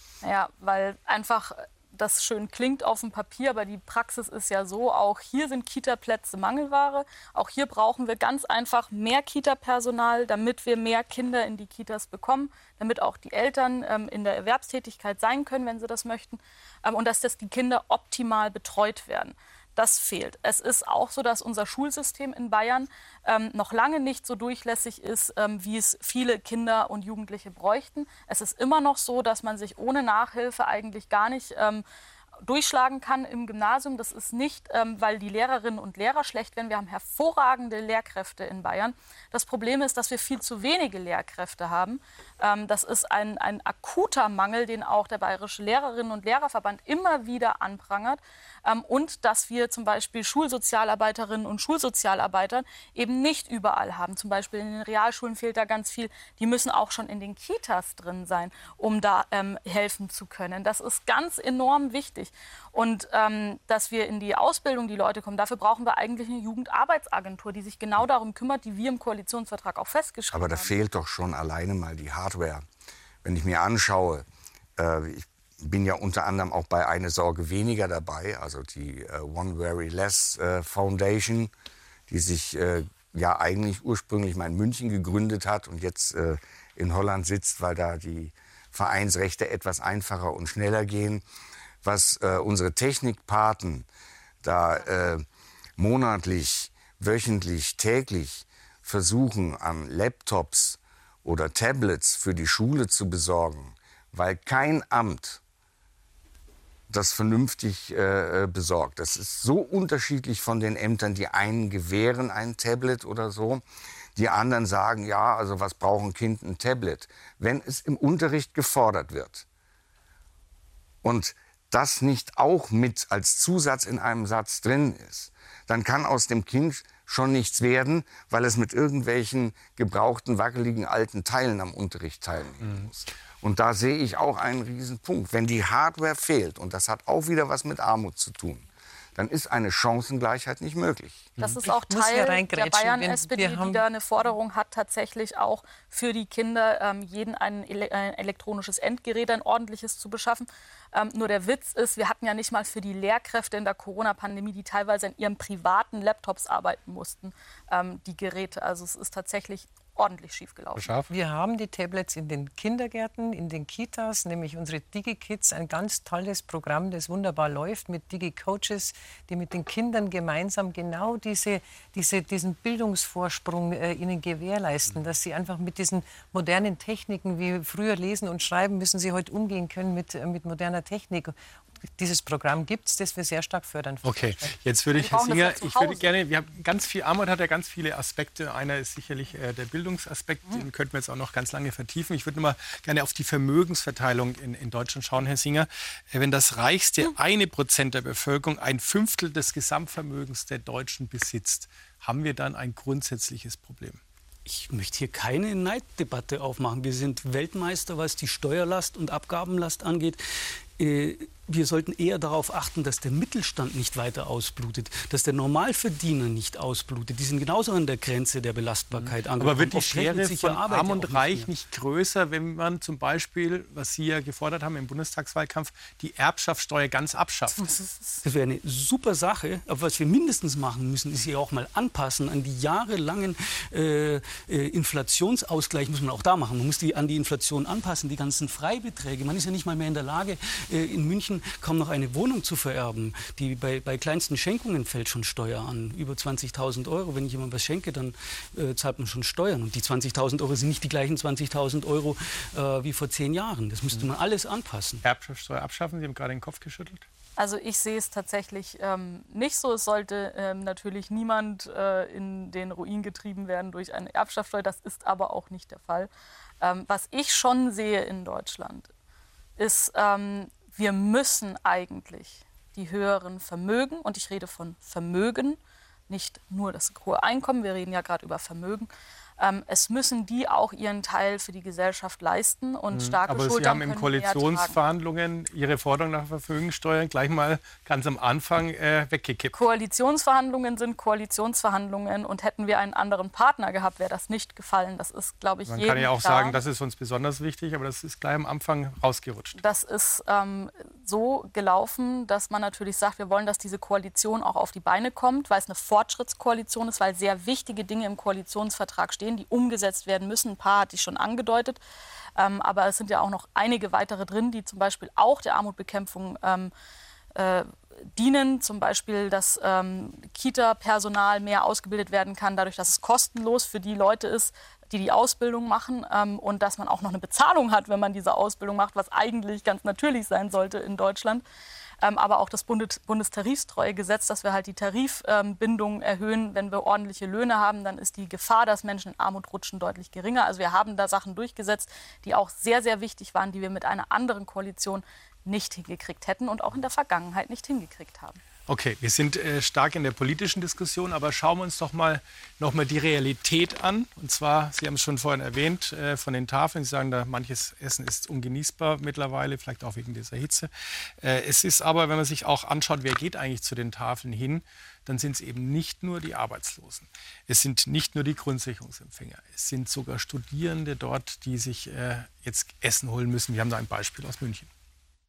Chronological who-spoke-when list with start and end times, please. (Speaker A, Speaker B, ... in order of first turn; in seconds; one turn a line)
Speaker A: 0.2-31.9
Speaker A: 32.4-70.7
Speaker B: 70.3-72.7
Speaker B: 73.2-74.3
Speaker B: 74.8-81.5
Speaker B: 82.1-91.2
Speaker B: 91.8-93.9
Speaker B: 94.4-95.3
Speaker B: 95.8-105.4
Speaker B: 106.9-113.6
Speaker B: 114.2-119.5
Speaker B: 121.0-138.7
Speaker C: 132.6-132.9
Speaker B: 139.2-141.3
Speaker C: 141.4-141.6
Speaker A: 141.4-160.9
Speaker D: 141.7-143.8
Speaker C: 160.8-161.1
Speaker D: 161.1-181.3
Speaker D: 182.0-184.6
Speaker C: 184.1-204.0
Speaker A: 184.9-186.1
Speaker E: 204.5-210.2
Speaker E: 210.8-221.5
Speaker C: 218.9-227.7
Speaker E: 228.2-255.1
Speaker C: 255.0-257.1
Speaker A: 257.4-266.1
Speaker A: 266.6-268.9
Speaker A: 269.6-284.8
Speaker C: 282.9-289.6
Speaker A: 289.5-296.6
Speaker C: 295.7-299.6
Speaker A: 299.6-311.8
Speaker A: 312.4-316.7
Speaker A: 317.4-331.4
Speaker A: 332.0-348.4
Speaker C: 348.7-360.7
Speaker C: 361.2-374.7